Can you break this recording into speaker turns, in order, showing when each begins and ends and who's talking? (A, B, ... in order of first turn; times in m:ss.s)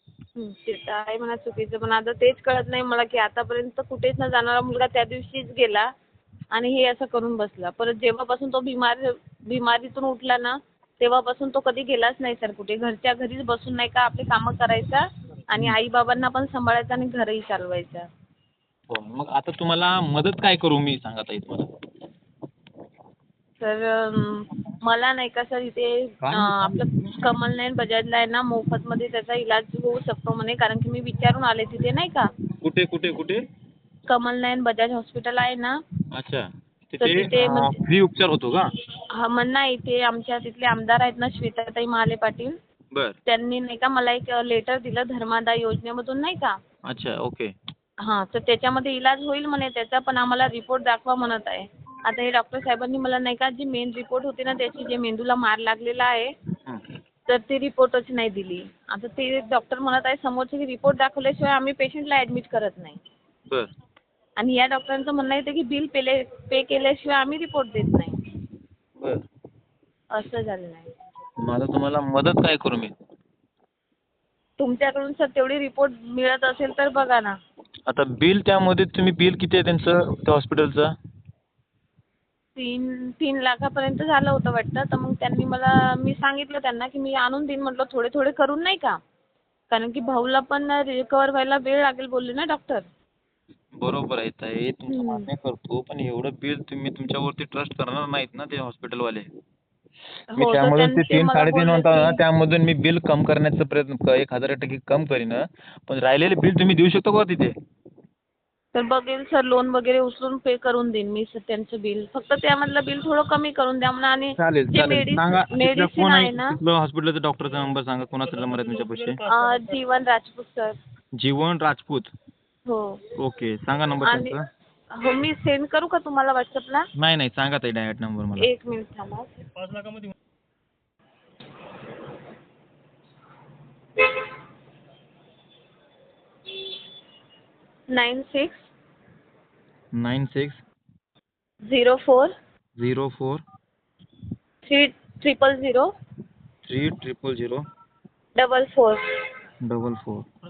0:00.4-0:05.9 A
0:06.5-0:18.1 A
0:18.9-0:21.7 B
0:23.6-0:32.3 A
0:26.2-0:27.1 B
0:32.6-0:33.4 B
0:34.1-0:35.8 A
0:36.1-0:38.7 B
0:37.0-0:37.8 A
0:39.2-0:42.6 A
0:43.3-0:46.5 A
0:46.9-0:47.5 B
0:48.0-0:56.3 A
0:57.3-1:03.0 A
1:04.4-1:08.2 A
1:10.1-1:10.9 A
1:11.4-1:12.9 B
1:14.6-1:17.4 A
1:17.9-1:20.9 B
1:22.6-1:29.0 A
1:29.7-1:32.8 A
1:33.8-1:39.3 B
1:34.9-1:35.3 A
1:40.3-1:42.2 A
1:40.4-1:47.5 B
1:48.7-1:56.6 A
1:54.4-1:59.2 B
1:59.3-2:00.8 A
2:01.2-2:02.1 B
2:02.7-2:03.0 A
2:03.2-2:04.4 B
2:04.0-2:04.4 A
2:05.0-2:06.9 A
2:07.0-2:08.5 B
2:08.4-2:09.4 A
2:17.9-2:18.7 A
2:19.9-2:20.6 B
2:21.7-2:22.3 A
2:22.8-2:23.4 B
2:24.6-2:25.9 A
2:26.7-2:27.6 B
2:28.4-2:29.0 A
2:29.6-2:30.2 B